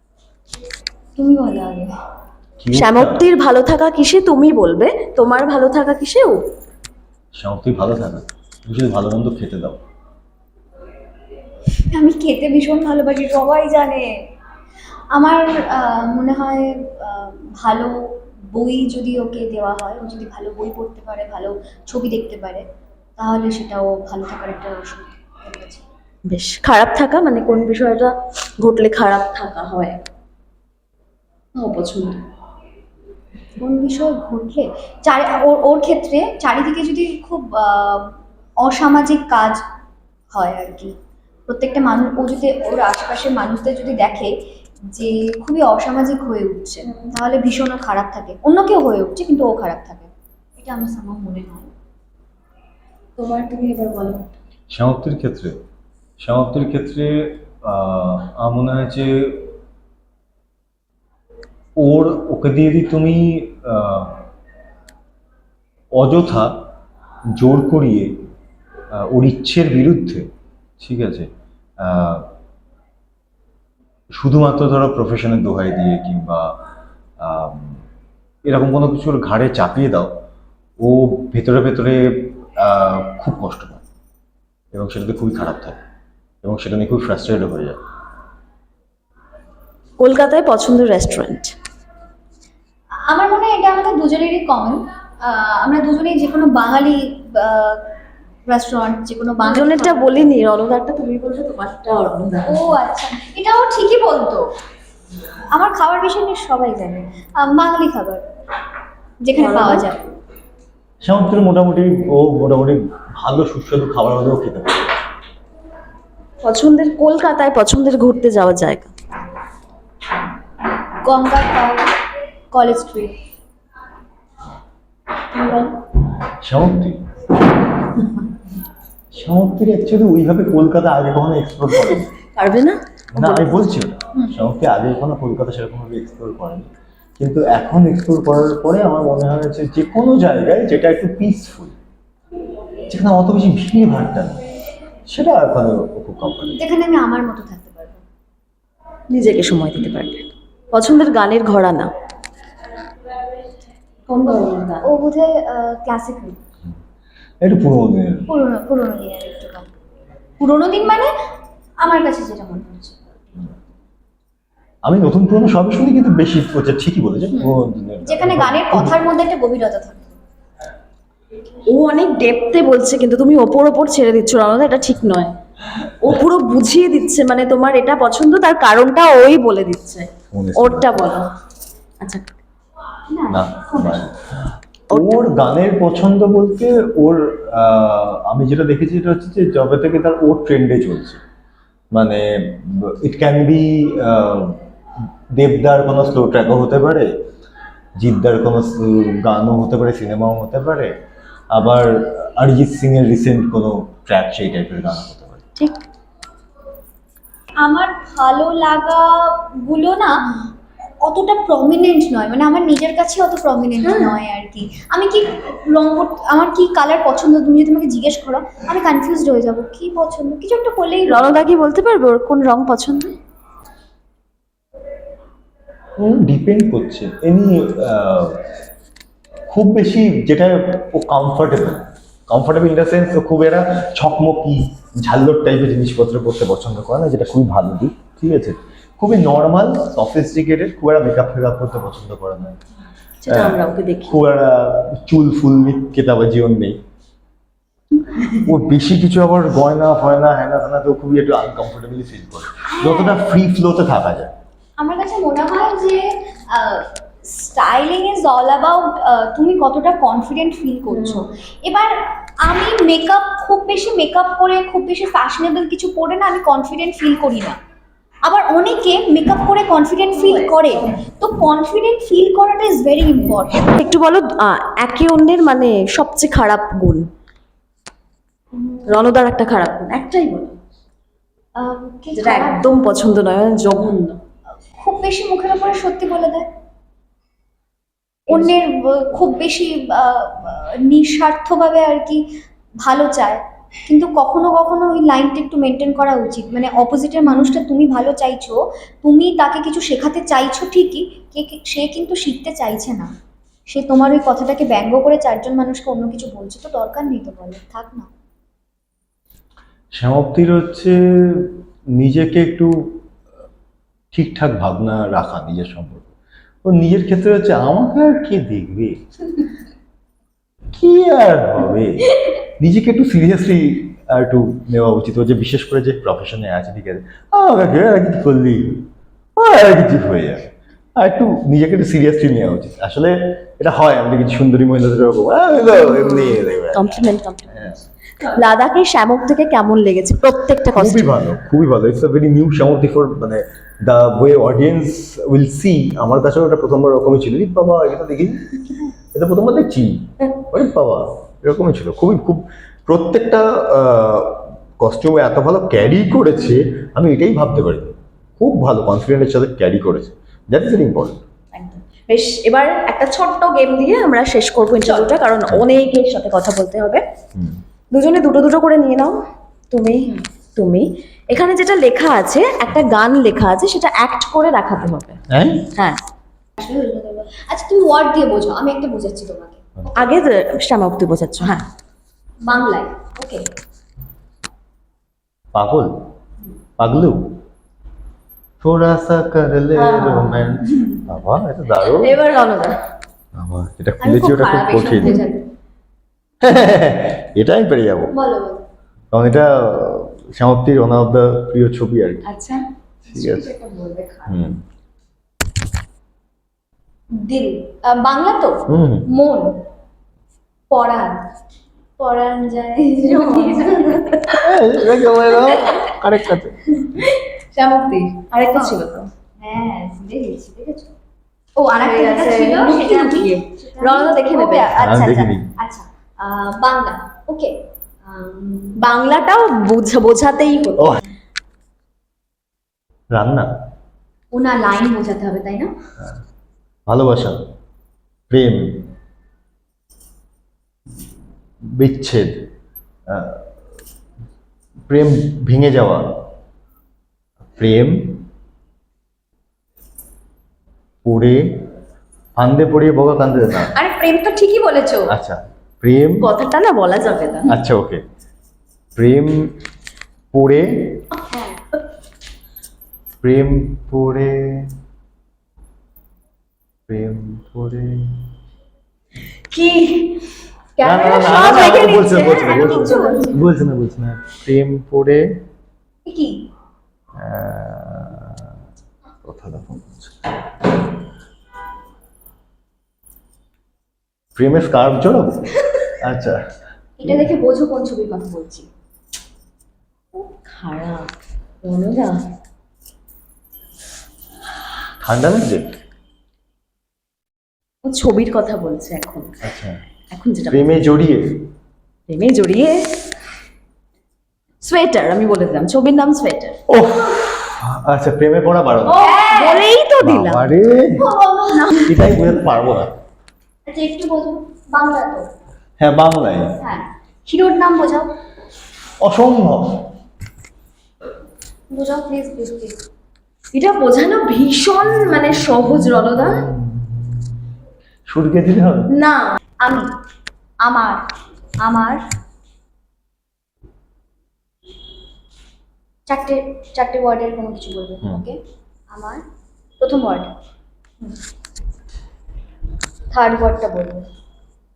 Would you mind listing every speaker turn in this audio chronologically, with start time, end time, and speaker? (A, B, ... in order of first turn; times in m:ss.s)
0:01.2-0:01.9 A
0:02.6-0:03.2 B
0:02.7-0:06.4 C
0:07.3-0:09.8 B
0:11.9-0:14.2 A
0:15.1-0:22.6 A
0:23.2-0:25.8 A
0:26.3-0:30.0 C
0:31.5-0:32.2 C
0:33.6-0:39.6 A
0:40.3-0:40.9 A
0:41.5-0:44.3 A
0:44.9-0:51.7 A
0:46.8-0:47.1 C
0:53.2-0:54.3 C
0:54.7-0:55.6 B
0:56.2-0:59.5 B
1:01.8-1:04.2 B
1:05.9-1:06.7 B
1:07.3-1:08.2 B
1:08.9-1:10.3 B
1:10.8-1:11.3 B
1:11.8-1:12.3 B
1:14.1-1:16.6 B
1:17.2-1:17.8 B
1:18.4-1:20.1 B
1:20.8-1:23.8 B
1:24.7-1:25.8 B
1:26.4-1:27.8 B
1:30.0-1:31.5 C
1:33.0-1:37.8 A
1:38.4-1:40.2 A
1:39.4-1:42.8 C
1:42.5-1:44.5 A
1:45.5-1:48.2 A
1:49.2-1:50.0 A
1:49.3-1:49.9 C
1:51.0-1:55.0 B
1:56.4-1:58.9 C
2:01.0-2:01.8 A
2:02.5-2:03.1 A
2:05.3-2:05.7 C
2:06.4-2:07.0 B
2:09.1-2:12.1 B
2:11.7-2:13.6 C
2:13.1-2:16.7 B
2:17.2-2:21.7 B
2:22.9-2:24.4 B
2:25.1-2:26.6 B
2:26.5-2:28.0 A
2:29.1-2:31.9 C
2:34.1-2:34.8 C
2:34.2-2:36.4 A
2:37.4-2:38.3 B
2:38.3-2:39.7 A
2:40.4-2:41.1 A
2:41.8-2:43.0 A
2:44.8-2:49.0 B
2:47.3-2:50.1 A
2:51.7-2:55.3 C
2:56.0-3:01.3 C
3:00.3-3:01.1 B
3:03.1-3:04.0 A
3:03.3-3:11.2 B
3:04.9-3:05.2 C
3:11.9-3:14.6 B
3:15.3-3:17.1 B
3:18.0-3:20.9 B
3:21.5-3:25.4 B
3:27.6-3:30.3 A
3:31.0-3:41.4 A
3:33.8-3:34.2 C
3:41.1-3:43.1 C
3:46.0-3:48.4 B
3:49.5-4:02.6 B
4:03.2-4:04.2 C
4:03.3-4:06.8 B
4:08.4-4:14.3 B
4:12.6-4:13.2 A
4:14.8-4:27.6 A
4:20.9-4:21.3 C
4:28.2-4:33.8 A
4:30.1-4:31.0 C
4:33.5-4:37.1 C
4:38.5-4:39.0 A
4:38.9-4:40.6 C
4:41.6-4:42.7 A
4:42.1-4:44.2 C
4:44.7-4:46.5 A
4:48.3-4:52.2 A
4:52.8-5:03.1 A
5:03.7-5:08.1 A
5:09.9-5:13.0 B
5:14.1-5:16.1 B
5:16.6-5:19.0 B
5:20.7-5:37.8 B
5:35.9-5:37.6 C
5:38.2-5:41.1 C
5:40.7-5:48.4 B
5:49.1-6:01.2 B
6:01.5-6:07.0 C
6:04.8-6:05.1 A
6:07.3-6:07.6 B
6:07.9-6:09.1 C
6:09.7-6:15.2 C
6:15.3-6:15.7 B
6:15.7-6:16.0 C
6:16.6-6:19.6 A
6:19.9-6:21.6 C
6:22.4-6:23.4 A
6:25.5-6:25.9 B
6:26.8-6:27.4 B
6:28.6-6:32.1 B
6:29.7-6:30.6 C
6:31.8-6:32.8 C
6:33.3-6:35.2 B
6:34.0-6:35.5 A
6:36.4-6:38.1 B
6:38.1-6:38.6 A
6:39.1-6:42.2 B
6:42.2-6:42.6 C
6:43.1-6:44.3 A
6:43.1-6:43.5 B
6:44.3-6:44.6 B
6:47.1-6:49.6 A
6:48.7-6:49.1 B
6:50.7-6:51.2 A
6:52.0-6:54.2 A
6:53.1-6:54.4 C
6:54.4-6:56.6 B
6:55.3-6:55.9 A
6:56.9-6:59.1 C
6:58.5-6:58.8 A
6:59.4-7:00.9 A
7:01.6-7:08.8 A
7:01.7-7:04.7 C
7:04.8-7:05.5 B
7:08.8-7:11.0 C
7:13.1-7:13.5 B
7:14.3-7:15.7 A
7:16.9-7:17.4 B
7:18.3-7:18.8 B
7:21.6-7:22.5 B
7:23.1-7:23.4 B
7:24.9-7:26.2 B
7:27.6-7:28.2 B
7:31.0-7:31.6 B
7:32.4-7:33.7 B
7:33.7-7:35.1 A
7:35.1-7:36.3 B
7:36.2-7:37.5 C
7:37.5-7:38.0 B
7:38.9-7:39.5 B
7:40.3-7:41.0 B
7:41.3-7:41.6 A
7:43.2-7:44.7 B
7:46.9-7:48.2 B
7:49.5-7:50.2 C
7:50.8-7:53.5 A
7:50.8-7:55.4 B
7:51.2-7:53.3 C
7:56.0-7:56.5 A
7:57.2-7:58.4 B
7:59.2-8:00.1 B
8:04.3-8:06.4 B
8:07.0-8:08.7 A
8:10.1-8:11.1 C
8:11.6-8:12.2 C
8:15.0-8:15.7 B
8:17.8-8:19.3 C
8:19.4-8:19.8 B
8:20.1-8:20.7 C
8:20.5-8:21.5 B
8:22.1-8:23.0 C
8:24.6-8:26.6 C
8:26.7-8:29.0 B
8:28.8-8:30.5 C
8:28.9-8:29.6 A
8:30.0-8:31.0 B
8:31.0-8:31.9 A
8:31.5-8:32.1 C
8:31.8-8:32.9 B
8:33.6-8:35.3 A
8:35.8-8:36.6 B
8:36.6-8:38.1 A
8:39.0-8:39.9 B
8:41.7-8:42.8 A
8:43.5-8:46.5 C
8:45.2-8:47.4 B
8:48.1-8:48.9 B
8:48.9-8:49.3 C
8:49.6-8:49.9 A
8:50.6-8:51.0 A
8:51.6-8:52.0 A
8:56.1-8:58.4 A
8:58.9-8:59.2 A
8:59.8-9:00.3 A
9:03.1-9:04.1 A